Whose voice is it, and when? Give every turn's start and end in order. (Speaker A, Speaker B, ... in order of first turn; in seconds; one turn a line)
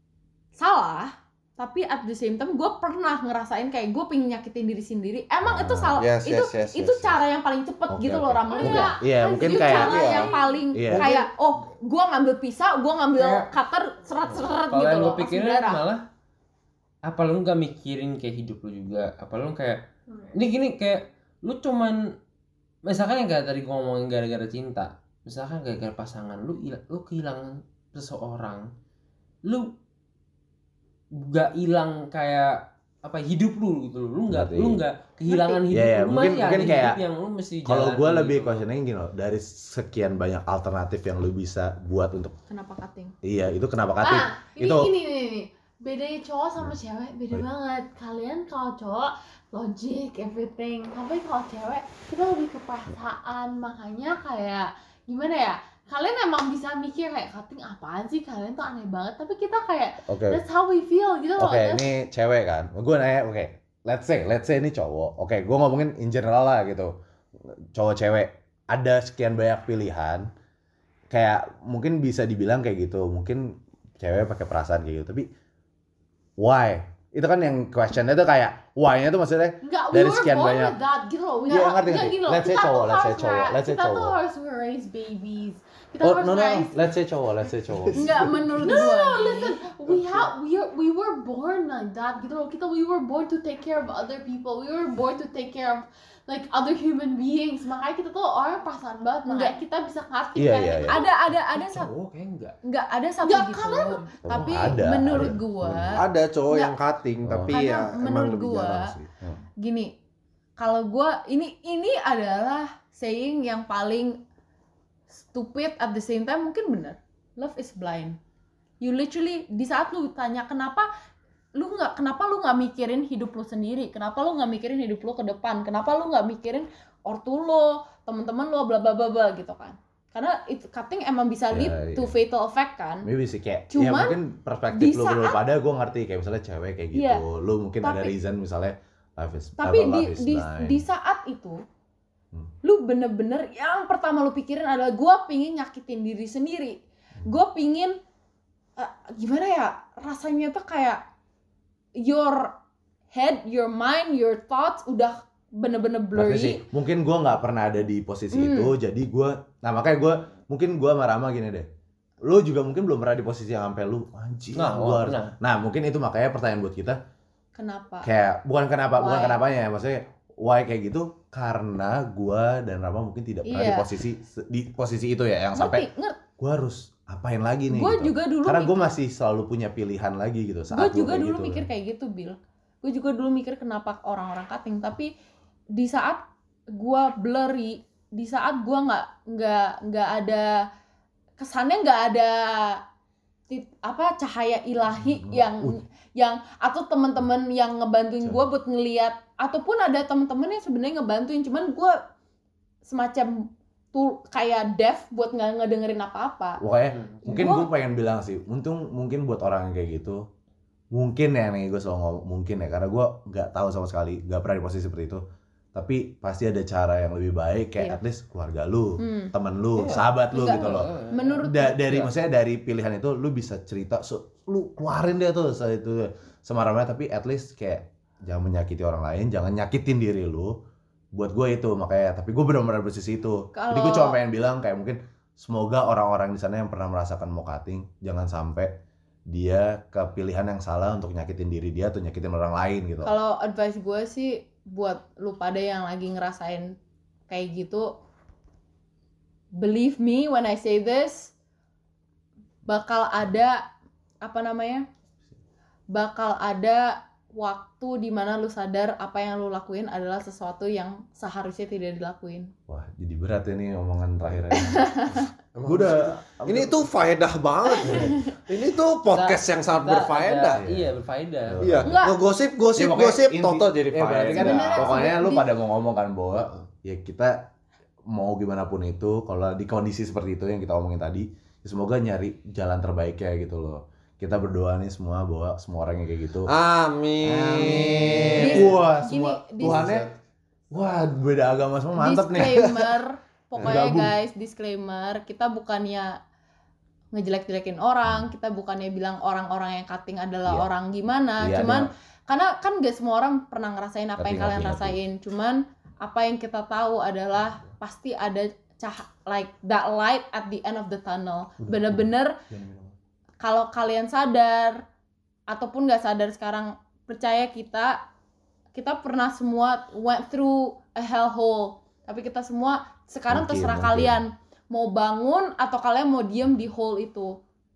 Speaker A: 0.6-15.8
Speaker B: 5.4-6.0
Speaker C: 6.0-7.2
Speaker B: 7.9-10.1
Speaker D: 8.5-10.6
Speaker C: 9.8-10.3
Speaker B: 10.7-11.1
Speaker E: 13.2-13.5
Speaker E: 14.7-16.0
Speaker E: 17.1-22.1
Speaker E: 22.9-28.7
Speaker E: 29.5-29.7
Speaker E: 31.2-38.7
Speaker B: 34.3-34.8
Speaker A: 35.3-35.6
Speaker B: 35.7-37.0
Speaker B: 37.6-42.3
Speaker A: 42.5-43.1
Speaker B: 43.2-44.9
Speaker D: 44.0-61.9
Speaker B: 60.1-60.4
Speaker B: 61.4-70.3
Speaker B: 71.1-75.3
Speaker B: 76.4-80.8
Speaker D: 79.6-86.8
Speaker B: 81.5-84.2
Speaker B: 86.0-88.1
Speaker A: 87.9-89.6
Speaker D: 88.0-101.1
Speaker C: 89.9-90.3
Speaker A: 99.2-99.6
Speaker B: 100.4-101.0
Speaker A: 100.8-101.9
Speaker E: 101.5-102.6
Speaker A: 102.6-106.8
Speaker D: 103.2-104.2
Speaker B: 104.2-106.0
Speaker C: 106.0-109.0
Speaker B: 107.2-107.6
Speaker A: 107.5-108.9
Speaker B: 109.0-109.4
Speaker A: 109.6-109.9
Speaker A: 110.6-114.2
Speaker A: 115.1-118.2
Speaker A: 118.8-120.9
Speaker A: 121.6-133.1
Speaker B: 131.5-132.2
Speaker B: 133.0-140.8
Speaker A: 133.7-134.2
Speaker A: 134.7-135.4
Speaker A: 136.9-137.2
Speaker A: 137.8-138.1
Speaker A: 139.6-141.6
Speaker A: 142.6-148.0
Speaker A: 148.8-151.0
Speaker A: 152.0-152.6
Speaker A: 153.1-156.6
Speaker B: 156.2-161.7
Speaker A: 158.3-158.7
Speaker B: 162.2-167.0
Speaker E: 164.6-165.3
Speaker A: 167.6-168.1
Speaker B: 168.0-175.8
Speaker A: 169.0-169.4
Speaker A: 173.4-173.9
Speaker A: 175.6-176.2
Speaker B: 176.4-181.7
Speaker A: 177.7-178.9
Speaker A: 180.7-185.1
Speaker A: 185.8-186.2
Speaker A: 186.8-190.6
Speaker A: 191.4-192.8
Speaker A: 193.5-201.9
Speaker B: 195.0-195.8
Speaker A: 202.8-203.3
Speaker A: 203.9-206.6
Speaker B: 206.6-210.2
Speaker E: 206.9-207.4
Speaker A: 207.3-207.7
Speaker B: 210.9-215.2
Speaker B: 215.7-220.9
Speaker A: 219.0-219.3
Speaker E: 219.8-221.4
Speaker A: 220.3-222.1
Speaker B: 221.4-230.5
Speaker B: 231.2-238.7
Speaker A: 233.5-234.2
Speaker B: 239.3-243.1
Speaker A: 243.0-246.7
Speaker A: 247.3-247.9
Speaker A: 249.6-251.3
Speaker A: 252.7-253.6
Speaker A: 254.2-254.9
Speaker A: 255.9-262.5
Speaker B: 262.7-266.9
Speaker A: 264.5-265.3
Speaker C: 265.6-270.6
Speaker A: 267.8-268.2
Speaker E: 269.1-271.6
Speaker B: 270.5-272.0
Speaker C: 271.6-275.1
Speaker A: 271.8-272.2
Speaker B: 272.8-277.4
Speaker A: 274.3-275.5
Speaker B: 278.1-286.5
Speaker C: 286.5-288.8
Speaker B: 287.2-290.1
Speaker A: 288.4-290.1
Speaker B: 290.7-292.8
Speaker A: 292.0-296.2
Speaker B: 293.6-294.1
Speaker A: 297.1-312.4
Speaker B: 301.4-301.9
Speaker B: 304.2-305.0
Speaker B: 311.6-312.9
Speaker A: 313.4-314.8
Speaker A: 315.5-318.0
Speaker A: 318.8-327.4
Speaker B: 323.3-324.2